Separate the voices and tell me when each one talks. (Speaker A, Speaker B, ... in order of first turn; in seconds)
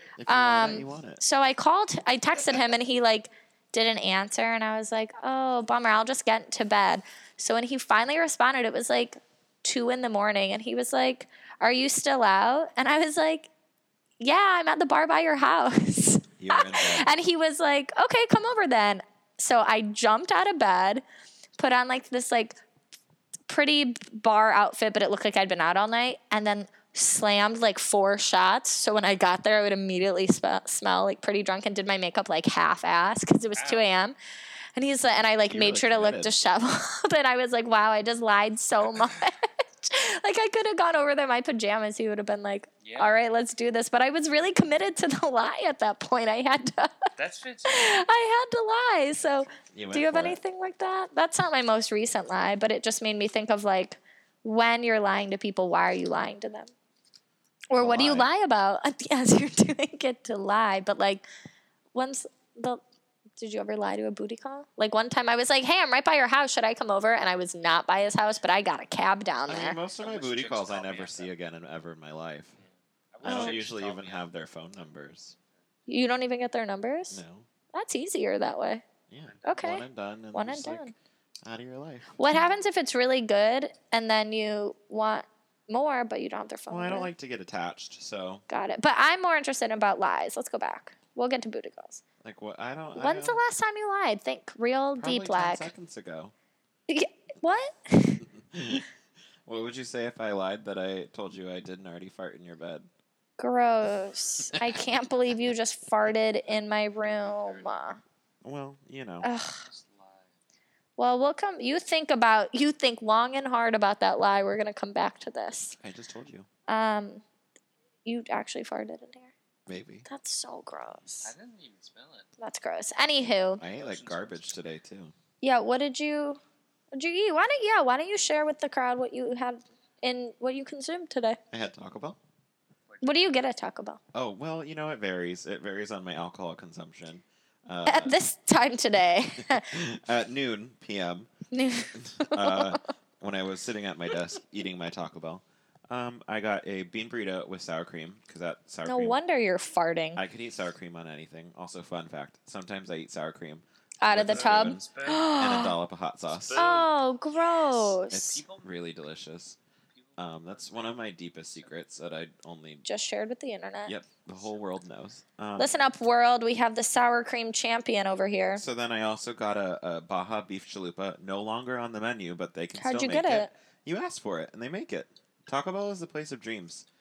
Speaker A: 0.2-1.2, 16.4-17.1, 35.5-36.4, 49.7-50.4, 57.8-58.3, 69.5-72.5, 73.2-75.3, 77.1-77.5, 79.1-80.9, 81.4-82.1, 86.7-88.4, 92.2-93.4, 95.0-96.3, 98.4-98.8, 99.5-102.9, 108.4-109.3, 115.8-116.5, 119.7-120.0, 123.6-125.1, 131.5-132.2, 134.1-138.2, 139.5-141.3, 141.9-149.2, 150.1-156.6, 158.1-159.6, 160.2-162.8, 163.8-165.7, 168.6-176.9
Speaker B: 0.3-13.5, 14.2-21.0, 21.6-22.6, 23.5-34.1, 34.7-47.0, 47.7-56.7, 57.7-61.2, 61.9-62.8, 63.4-69.8, 73.2-73.6, 75.9-77.2, 77.7-78.8, 79.4-80.9, 82.2-87.1, 88.5-92.0, 92.9-95.7, 96.9-98.2, 103.4-108.0, 109.2-109.6, 111.0-115.8, 116.7-117.2, 118.0-119.3, 120.1-121.3, 122.4-123.6, 125.4-126.4, 126.9-131.4, 133.0-134.0, 137.8-139.7, 141.5-142.8, 148.8-150.2, 154.0-155.7, 156.6-158.4, 162.8-163.9, 165.6-168.6, 172.7-173.5
Speaker C: 33.5-33.9, 42.8-43.1, 47.2-48.1, 70.0-71.3, 72.6-74.3, 79.2-79.8, 107.0-107.8, 109.5-110.3, 121.2-122.3, 123.6-124.6, 132.9-133.4, 154.2-155.5, 156.3-158.7, 159.9-161.7